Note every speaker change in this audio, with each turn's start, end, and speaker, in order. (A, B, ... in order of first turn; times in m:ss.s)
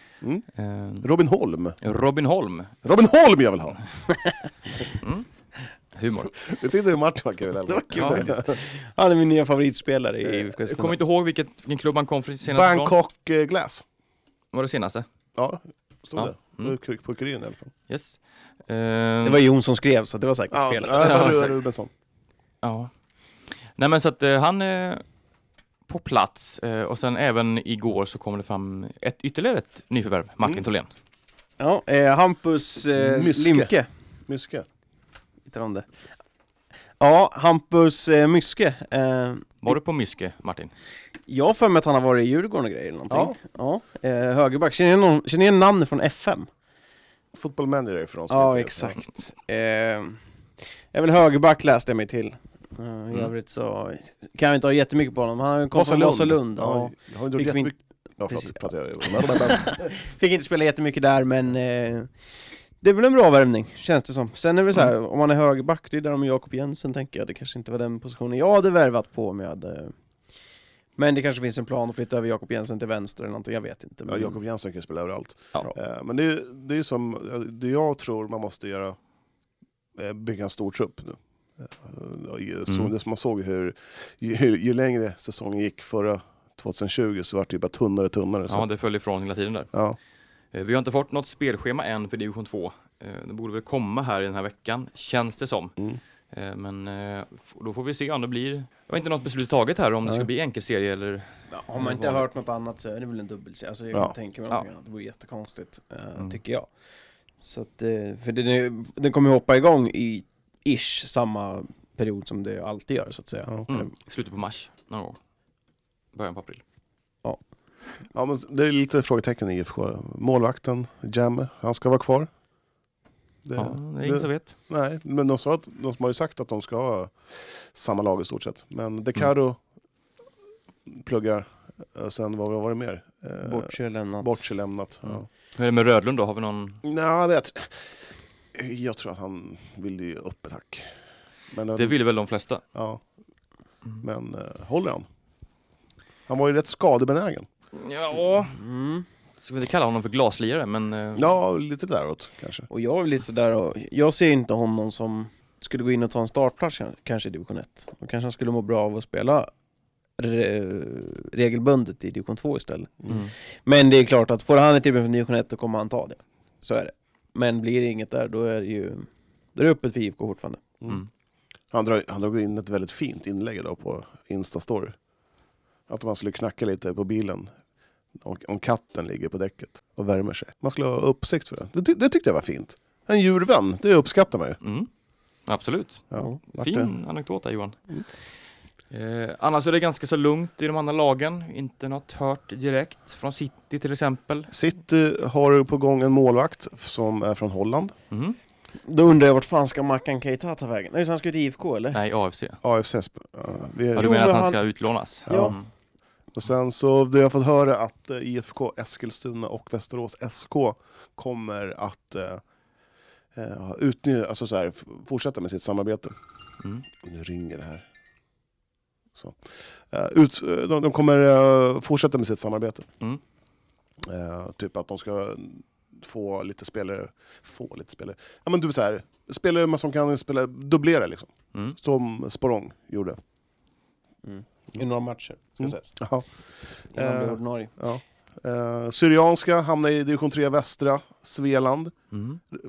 0:00.5-0:01.1 A
0:01.0-0:01.8 B
0:01.8-0:02.8 A
0:02.8-0:03.8 B
0:05.0-0:05.3 A
0:06.0-0:06.4 A
0:06.4-0:08.6 B
0:07.7-0:11.0 C
0:07.9-0:08.2 A
0:10.2-0:13.0 A
0:12.5-0:13.8 B
0:14.5-0:15.1 A
0:15.4-0:17.7 B
0:16.2-0:16.7 A
0:17.9-0:19.4 A
0:19.2-0:21.2 C
0:20.5-0:21.9 B
0:21.0-0:21.6 A
0:22.6-0:22.9 A
0:23.8-0:25.0 A
0:25.9-0:30.9 A
0:31.6-0:33.9 C
0:33.0-0:33.7 B
0:34.3-0:34.7 B
0:35.5-0:35.9 C
0:37.0-0:39.8 C
0:39.6-0:40.7 A
0:41.3-0:46.5 C
0:43.1-0:43.4 B
0:47.3-0:49.0 B
0:48.3-0:50.2 C
0:50.9-0:57.7 C
0:55.8-0:59.7 B
0:58.3-1:02.1 C
1:02.8-1:10.0 C
1:11.0-1:14.4 C
1:14.1-1:19.0 B
1:20.0-1:28.7 B
1:28.5-1:29.7 A
1:30.5-1:35.8 A
1:36.3-1:42.2 A
1:41.5-1:46.7 C
1:47.4-1:53.8 C
1:53.7-1:55.2 A
1:56.1-1:56.6 A
1:58.1-2:02.3 B
2:03.5-2:07.1 B
2:03.6-2:04.5 A
2:07.7-2:09.6 B
2:10.9-2:15.3 B
2:13.4-2:14.4 C
2:15.1-2:16.8 A
2:16.8-2:17.8 B
2:18.6-2:20.9 B
2:21.5-2:22.0 B
2:21.8-2:22.6 A
2:22.7-2:23.0 B
2:24.0-2:25.1 B
2:26.3-2:27.5 B
2:27.7-2:28.6 A
2:28.5-2:29.1 C
2:29.4-2:31.3 A
2:31.2-2:32.7 B
2:32.7-2:39.5 C
2:40.2-2:50.6 C
2:51.7-2:55.0 B
2:55.9-2:57.5 B
2:58.2-3:04.6 B
3:04.6-3:04.9 A
3:05.5-3:07.8 A
3:06.1-3:06.9 B
3:08.9-3:14.5 A
3:14.5-3:17.9 B
3:18.1-3:18.4 A
3:18.8-3:22.0 C
3:21.9-3:22.6 A
3:22.6-3:24.1 B
3:24.0-3:24.6 C
3:24.0-3:25.7 A
3:25.3-3:25.6 C
3:25.3-3:25.6 B
3:26.4-3:32.4 B
3:33.4-3:36.2 B
3:37.0-3:37.9 B
3:39.9-3:42.9 B
3:44.0-3:53.2 B
3:54.2-3:55.9 C
3:55.6-3:56.3 B
3:56.9-4:01.9 B
3:56.9-3:57.7 C
4:02.1-4:02.4 A